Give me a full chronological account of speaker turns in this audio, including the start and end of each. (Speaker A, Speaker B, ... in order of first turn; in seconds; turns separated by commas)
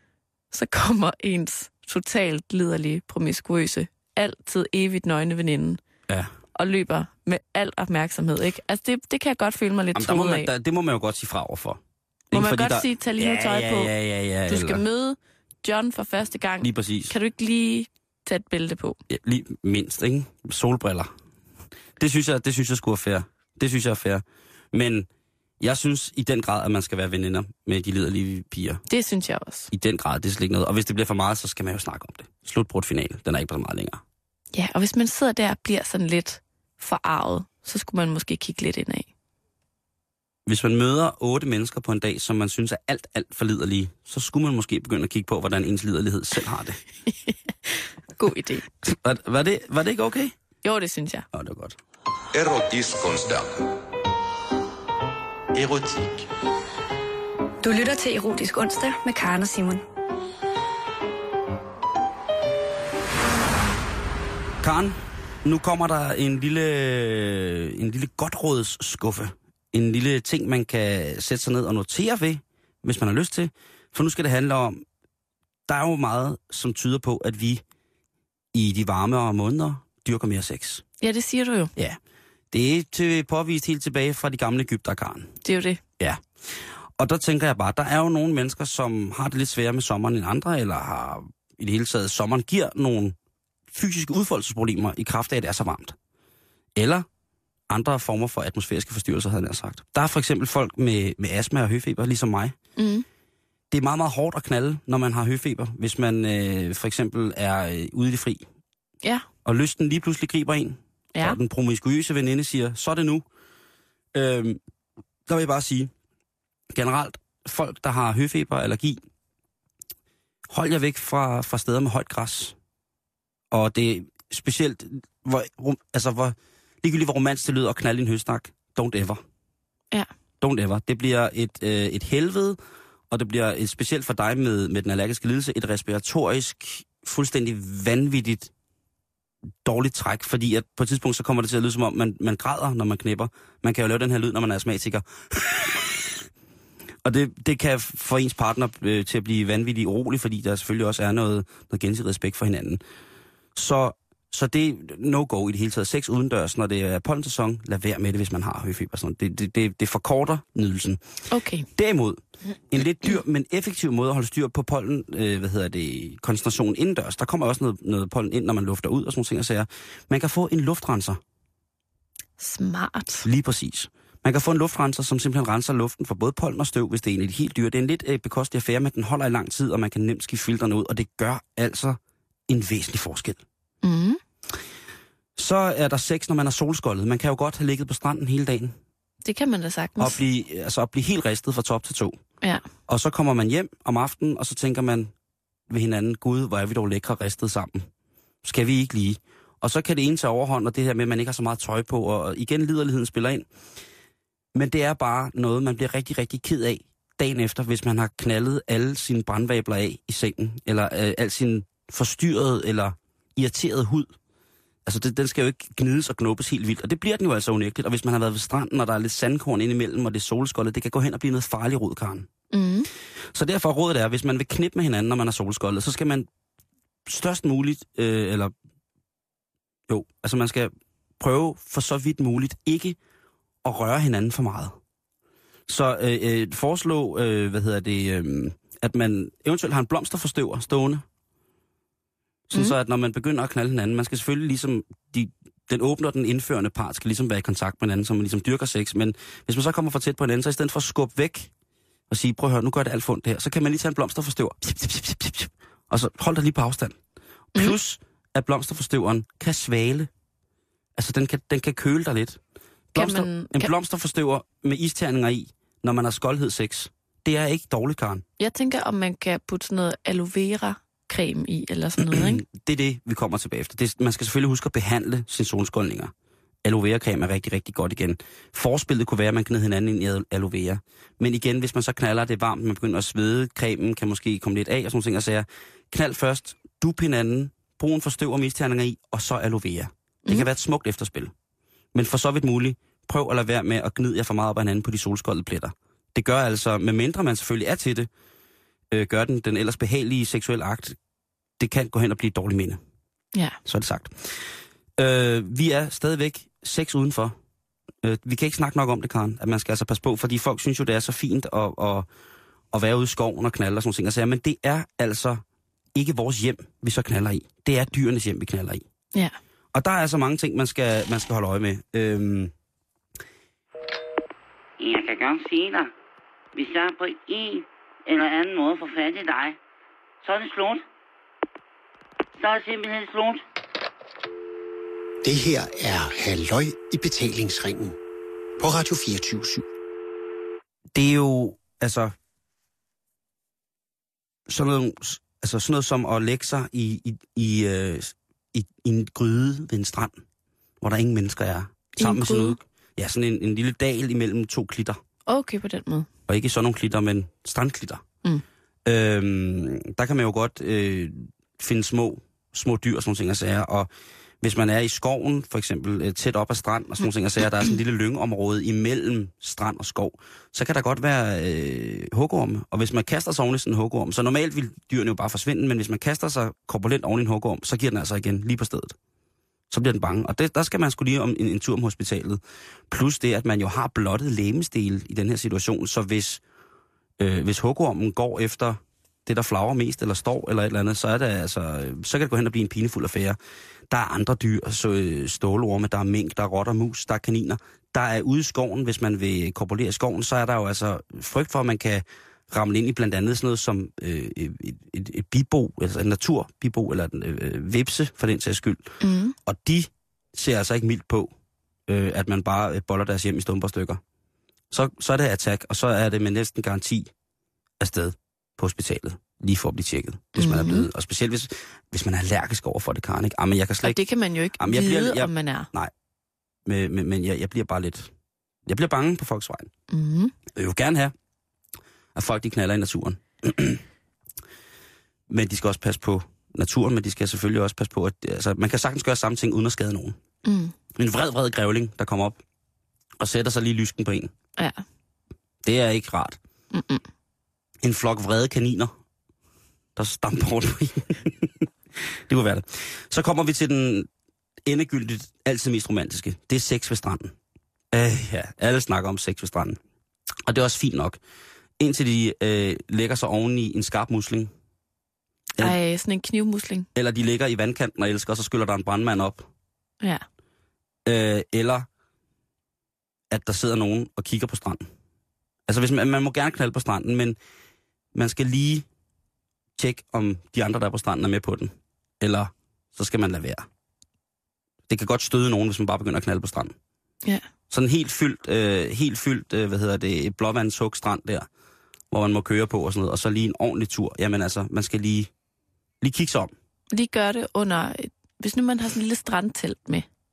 Speaker A: 0.5-5.8, Speaker A: 6.5-10.5, Speaker B: 9.9-14.8, Speaker A: 12.3-13.9, Speaker A: 14.5-19.0, Speaker B: 16.6-17.1, Speaker B: 19.1-21.1, Speaker B: 22.0-25.1, Speaker B: 25.6-28.8, Speaker A: 28.9-29.7, Speaker B: 29.7-34.0, Speaker A: 34.5-39.1, Speaker B: 40.5-46.8, Speaker A: 47.2-48.7, Speaker B: 48.8-50.3, Speaker A: 50.6-51.2, Speaker B: 51.3-51.8, Speaker C: 52.3-53.7, Speaker C: 55.5-56.2, Speaker D: 57.6-59.8, Speaker B: 64.6-74.8, Speaker B: 75.7-77.6, Speaker B: 78.5-80.8, Speaker A: 81.0-81.7, Speaker B: 82.5-85.3, Speaker A: 85.4-85.8, Speaker B: 86.0-93.2, Speaker B: 93.7-96.0, Speaker B: 96.8-97.1, Speaker B: 97.7-102.5, Speaker A: 102.8-103.0, Speaker B: 103.7-108.4, Speaker B: 109.4-113.2, Speaker B: 114.1-114.6, Speaker B: 115.2-115.9, Speaker B: 116.7-119.0, Speaker B: 120.5-122.5, Speaker B: 123.5-129.2, Speaker B: 130.4-132.6, Speaker B: 133.1-138.5, Speaker B: 139.6-146.3, Speaker B: 147.0-152.8, Speaker B: 153.5-161.0, Speaker A: 161.3-161.7, Speaker B: 161.8-171.2, Speaker A: 172.4-173.2, Speaker B: 173.2-183.4, Speaker A: 183.8-184.2, Speaker B: 185.4-188.8, Speaker A: 189.2-190.2, Speaker B: 190.0-192.2, Speaker B: 192.9-195.1, Speaker B: 195.7-197.9, Speaker B: 198.4-203.5, Speaker B: 204.5-214.1, Speaker B: 214.8-222.3, Speaker A: 222.5-222.9, Speaker B: 223.3-226.3, Speaker B: 227.1-228.5, Speaker B: 229.9-233.0, Speaker B: 233.6-234.8, Speaker B: 235.7-241.0, Speaker B: 242.5-251.5, Speaker B: 252.1-257.0, Speaker B: 257.5-260.1, Speaker B: 260.9-262.4, Speaker B: 262.9-268.2, Speaker A: 263.0-263.7, Speaker A: 268.4-272.4, Speaker B: 272.0-276.1, Speaker B: 276.6-291.3, Speaker B: 291.9-298.1, Speaker B: 298.9-301.0, Speaker B: 301.6-302.8, Speaker B: 303.6-307.4, Speaker B: 308.0-312.1, Speaker B: 312.7-315.4, Speaker B: 315.9-318.8, Speaker B: 319.7-322.5, Speaker E: 324.8-325.9, Speaker E: 326.5-329.6, Speaker E: 330.2-330.8, Speaker E: 332.4-333.4, Speaker F: 335.2-337.9, Speaker F: 338.6-339.6, Speaker B: 340.9-342.1, Speaker B: 344.5-350.2, Speaker B: 350.8-355.0, Speaker A: 352.0-352.6, Speaker A: 355.3-356.1, Speaker B: 356.3-358.0, Speaker B: 358.9-363.9, Speaker B: 364.4-378.9, Speaker B: 379.7-386.4, Speaker B: 387.2-393.4, Speaker B: 393.9-411.3, Speaker A: 409.0-409.4, Speaker B: 411.9-414.0, Speaker B: 414.7-417.1, Speaker B: 417.8-424.0, Speaker A: 420.4-420.9, Speaker A: 423.8-425.7, Speaker B: 424.6-425.9, Speaker B: 426.6-428.1, Speaker B: 428.6-429.7, Speaker A: 429.9-430.3, Speaker B: 430.5-431.1, Speaker B: 432.1-433.8, Speaker B: 435.3-440.2, Speaker A: 440.4-440.7, Speaker B: 440.9-442.4, Speaker B: 443.2-444.3, Speaker B: 445.6-446.4, Speaker A: 446.7-447.0, Speaker B: 447.8-448.9, Speaker B: 449.9-454.1, Speaker B: 454.6-457.4, Speaker B: 457.9-459.8, Speaker B: 460.4-461.2, Speaker B: 461.8-464.5, Speaker A: 465.6-466.9, Speaker B: 466.9-469.5, Speaker B: 471.1-471.9, Speaker B: 473.3-474.9, Speaker B: 475.7-477.4, Speaker B: 478.1-478.9, Speaker B: 479.8-483.7, Speaker B: 484.9-486.7, Speaker B: 487.7-491.5, Speaker B: 492.1-495.3, Speaker B: 496.0-496.5, Speaker A: 496.9-500.1